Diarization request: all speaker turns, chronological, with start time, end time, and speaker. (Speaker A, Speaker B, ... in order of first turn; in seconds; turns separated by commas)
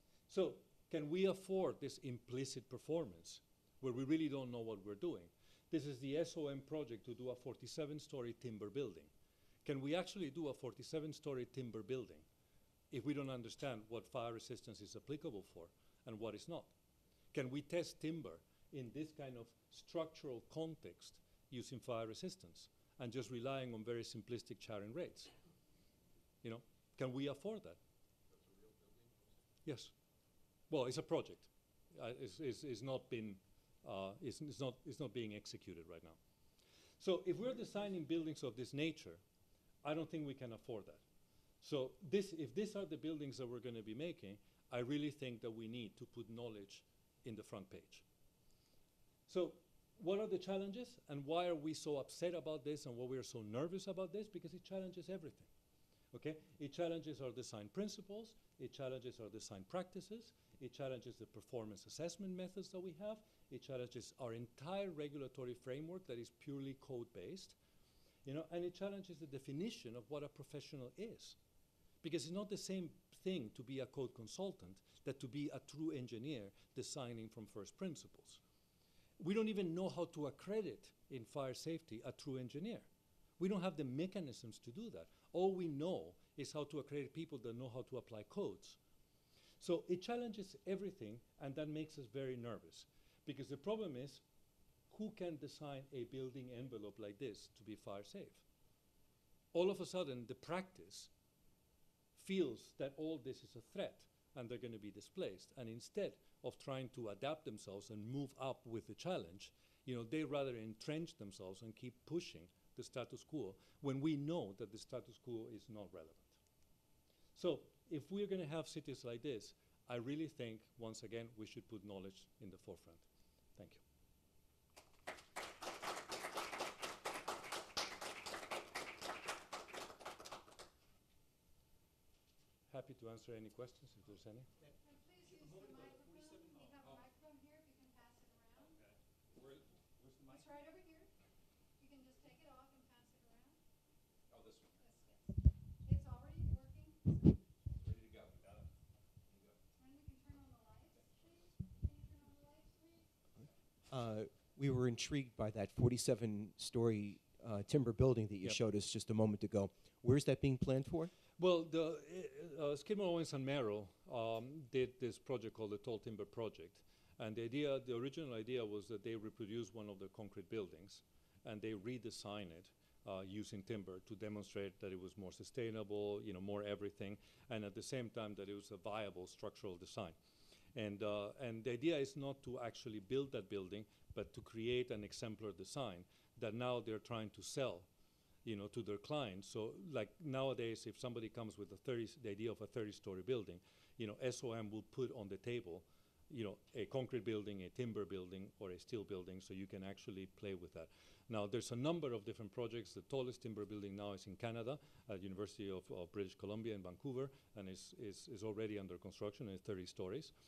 Speaker A: 0.3-9.1, Speaker A: 9.6-12.2, Speaker A: 12.9-16.7, Speaker A: 17.3-25.3, Speaker A: 26.4-27.8, Speaker A: 29.6-29.9, Speaker A: 30.7-36.2, Speaker A: 37.0-39.2, Speaker A: 39.8-41.0, Speaker A: 41.6-48.0, Speaker A: 49.3-55.5, Speaker A: 56.1-67.5, Speaker A: 68.2-71.4, Speaker A: 72.0-78.4, Speaker A: 79.2-82.9, Speaker A: 83.4-88.8, Speaker A: 89.6-94.2, Speaker A: 94.9-98.4, Speaker A: 99.5-101.1, Speaker A: 102.2-116.4, Speaker A: 117.3-123.0, Speaker A: 123.5-123.8, Speaker A: 132.7-134.5, Speaker B: 134.7-138.8, Speaker C: 139.3-140.4, Speaker B: 140.3-141.1, Speaker B: 141.8-143.6, Speaker C: 144.3-144.7, Speaker B: 144.8-147.4, Speaker C: 147.8-148.6, Speaker B: 149.7-153.1, Speaker D: 153.9-161.1, Speaker A: 161.4-180.2, Speaker A: 180.7-187.9, Speaker A: 188.4-210.3